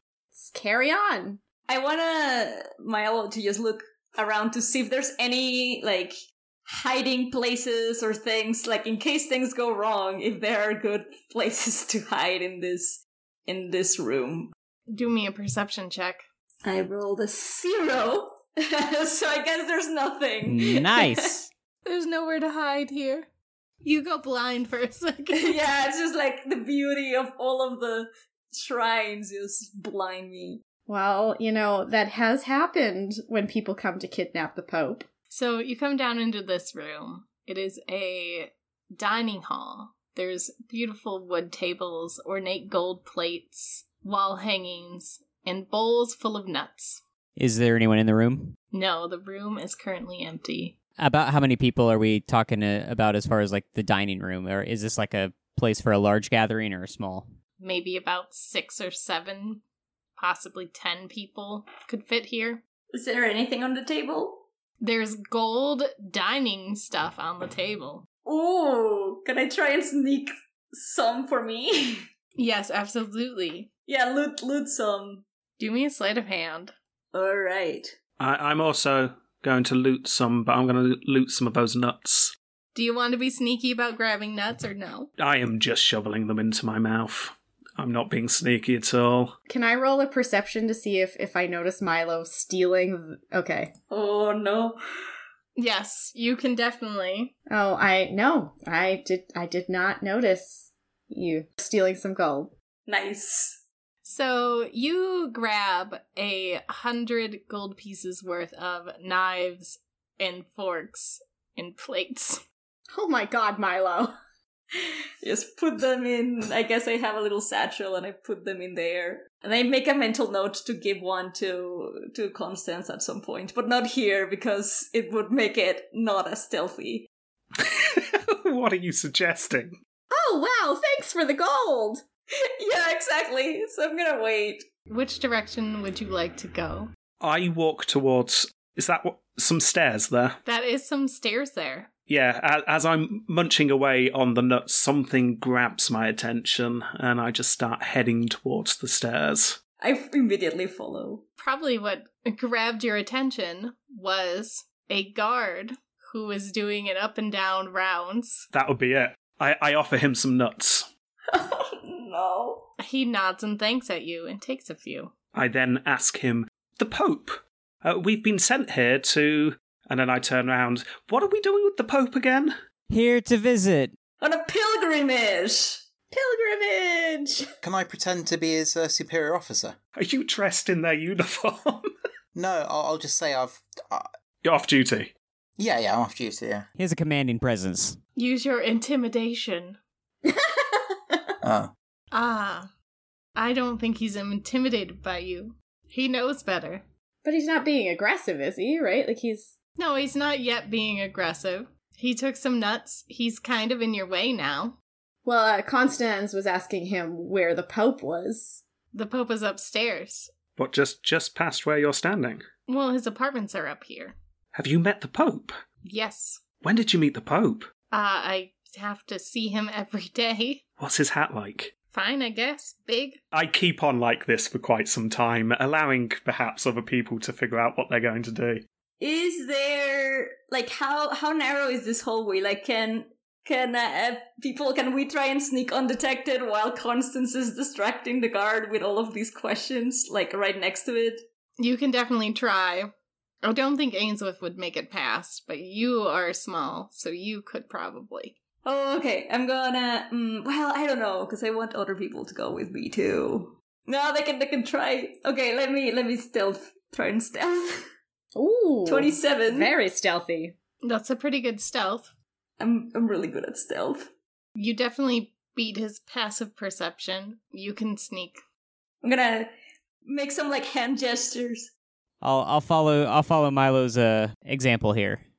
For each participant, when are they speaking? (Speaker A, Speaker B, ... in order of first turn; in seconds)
Speaker A: 0.3-1.4, 30.9-35.1, 89.5-93.7, 97.5-102.5, 112.9-114.1, 130.1-132.0, 176.1-177.5, 190.2-191.2, 197.2-199.5, 205.2-208.6, 258.4-260.6
Speaker B: 1.7-6.2, 6.7-14.5, 16.6-21.4, 25.4-30.6, 62.9-64.5, 68.2-72.0, 73.9-75.2, 77.1-78.0, 93.9-94.8, 102.9-103.6, 115.2-127.1, 132.6-134.7, 149.8-151.2, 161.3-162.7, 174.2-175.8, 229.0-241.2, 248.6-257.8, 258.9-259.7, 262.6-264.1, 269.0-269.5, 270.1-271.7
Speaker C: 14.9-16.2, 21.9-23.3, 23.8-25.7, 35.3-47.0, 48.7-50.8, 57.6-59.6, 60.2-62.6, 64.8-68.1, 72.4-73.7, 75.6-76.7, 82.8-85.1, 95.6-97.3, 104.0-112.4, 134.9-136.9, 140.5-141.9, 151.4-158.4, 162.8-165.1, 188.2-189.8, 192.1-192.7, 193.4-196.8, 199.8-204.8, 208.9-210.3, 212.7-214.2, 215.8-216.4, 217.9-220.6, 221.9-223.2, 241.6-242.9, 243.4-248.4, 260.8-262.1, 264.6-268.4
Speaker D: 20.4-21.5, 47.4-48.5, 51.0-57.3, 172.9-173.9, 186.8-188.0, 272.2-275.2
Speaker E: 78.2-82.3, 85.2-89.3, 127.6-129.8, 137.2-140.4, 142.1-149.6, 158.5-160.9, 165.3-172.5, 180.0-181.9, 184.4-185.1, 210.6-212.4, 214.5-215.5, 216.6-217.7, 220.8-221.7, 223.3-228.6
Speaker F: 177.6-179.8, 182.3-184.1, 185.6-186.7, 191.4-191.7